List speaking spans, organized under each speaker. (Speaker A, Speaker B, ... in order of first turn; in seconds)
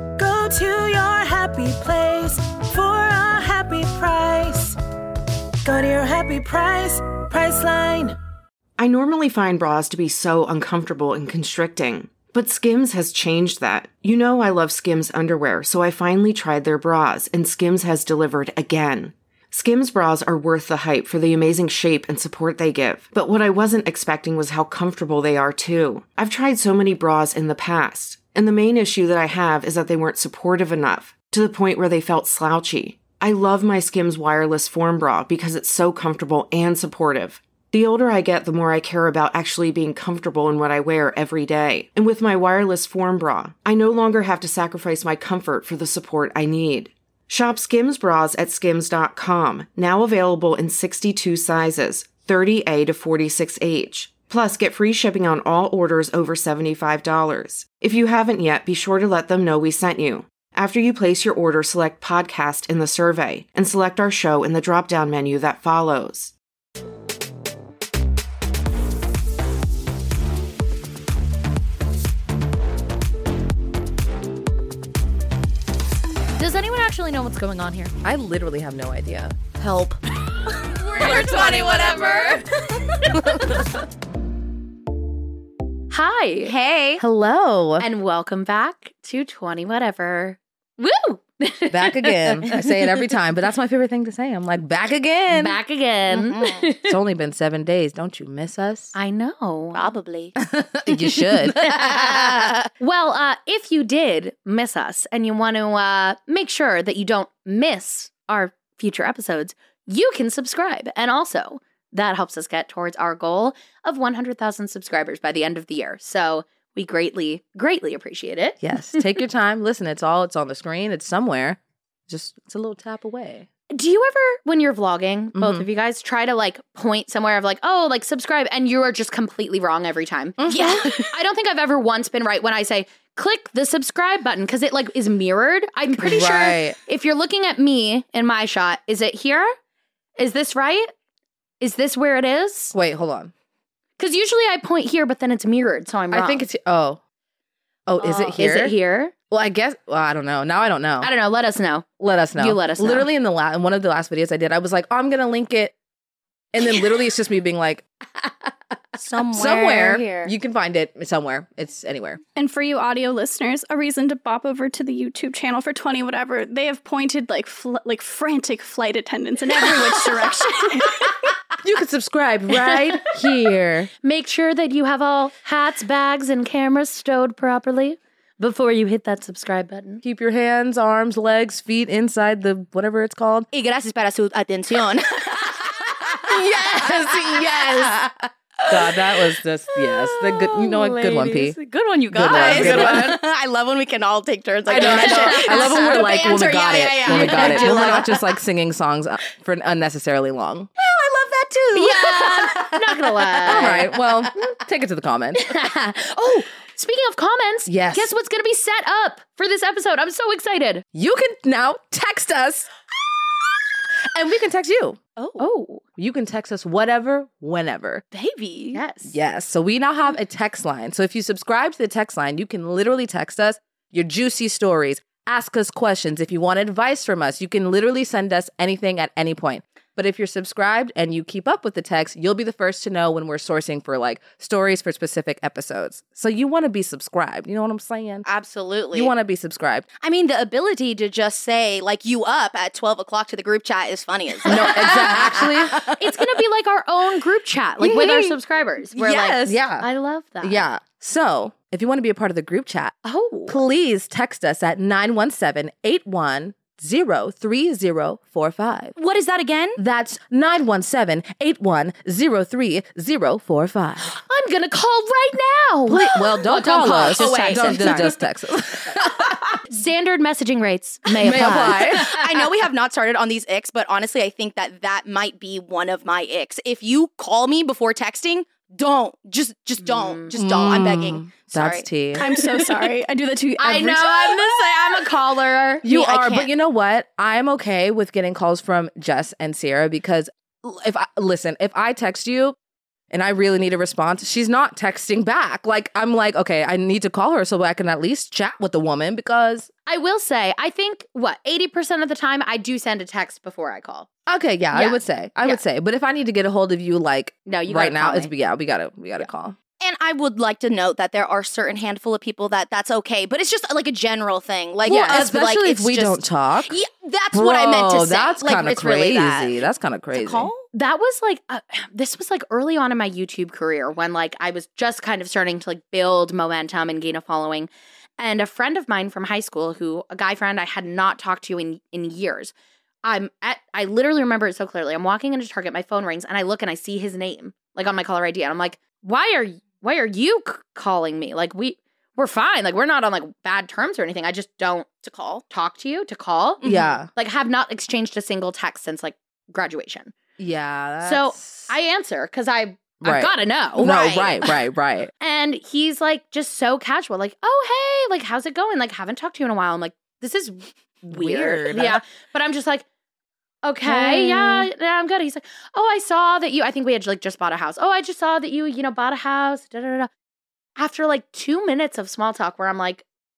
Speaker A: 0.2-4.8, 5.7-8.2
Speaker B: 8.8-66.3
Speaker C: 76.4-77.9, 81.0-82.3, 83.1-83.6, 85.9-86.5, 87.8-92.8, 95.3-97.0, 99.0-99.8, 101.4-119.1, 123.7-139.6, 140.2-140.9, 141.6-142.7, 144.0-146.4, 148.0-149.1, 151.0-153.1, 174.0-180.0, 192.3-193.1, 194.7-196.1, 197.1-198.1, 201.7-203.8, 205.3-210.8, 215.4-215.8, 218.7-219.2, 244.5-250.7, 253.0-253.6, 264.1-268.1, 269.6-272.2, 279.8-280.4, 283.6-285.8, 299.9-304.1, 304.7-305.6, 307.5-308.3, 314.9-315.2, 320.7-332.5, 333.0-344.9, 345.5-350.2, 351.0-353.9, 355.2-362.9, 363.6-370.1, 370.8-373.0
Speaker D: 78.0-80.0, 80.8-82.4, 83.0-83.8, 87.0-87.9, 91.7-95.6, 96.8-99.0, 100.4-102.2, 118.6-123.5, 125.4-125.7, 130.4-131.0, 135.9-136.8, 142.7-143.3, 146.1-147.0, 147.9-148.8, 149.3-151.1, 152.0-155.7, 156.5-157.8, 159.3-162.2, 171.6-173.9, 180.0-183.5, 186.3-188.0, 188.7-191.6, 192.1-193.2, 194.7-200.7, 203.5-205.4, 207.7-208.1, 210.9-212.7, 214.1-215.0, 216.0-218.0, 219.1-238.3, 238.9-239.9, 244.5-245.9, 249.4-249.9, 250.4-252.9, 253.5-258.9, 259.8-264.1, 265.9-269.4, 271.2-272.1, 280.4-282.3, 285.8-292.6, 293.1-299.7, 304.3-309.6, 314.9-316.8, 317.3-320.5, 346.6-347.1, 350.4-351.7, 353.0-355.1, 361.1-362.0
Speaker E: 80.7-82.4, 86.5-87.0, 96.1-96.7, 99.7-100.3, 101.9-102.7, 130.5-131.1, 159.0-160.3, 183.5-188.9, 189.7-198.2, 200.8-204.1, 215.2-215.4, 218.1-218.8, 238.3-239.1, 240.0-246.0, 248.0-248.3, 248.9-249.6, 259.0-259.8, 267.1-268.2, 271.3-281.9, 285.8-286.5, 309.8-320.6, 345.0-345.4, 346.6-346.9, 353.8-354.5
Speaker F: 162.4-171.1, 282.1-284.3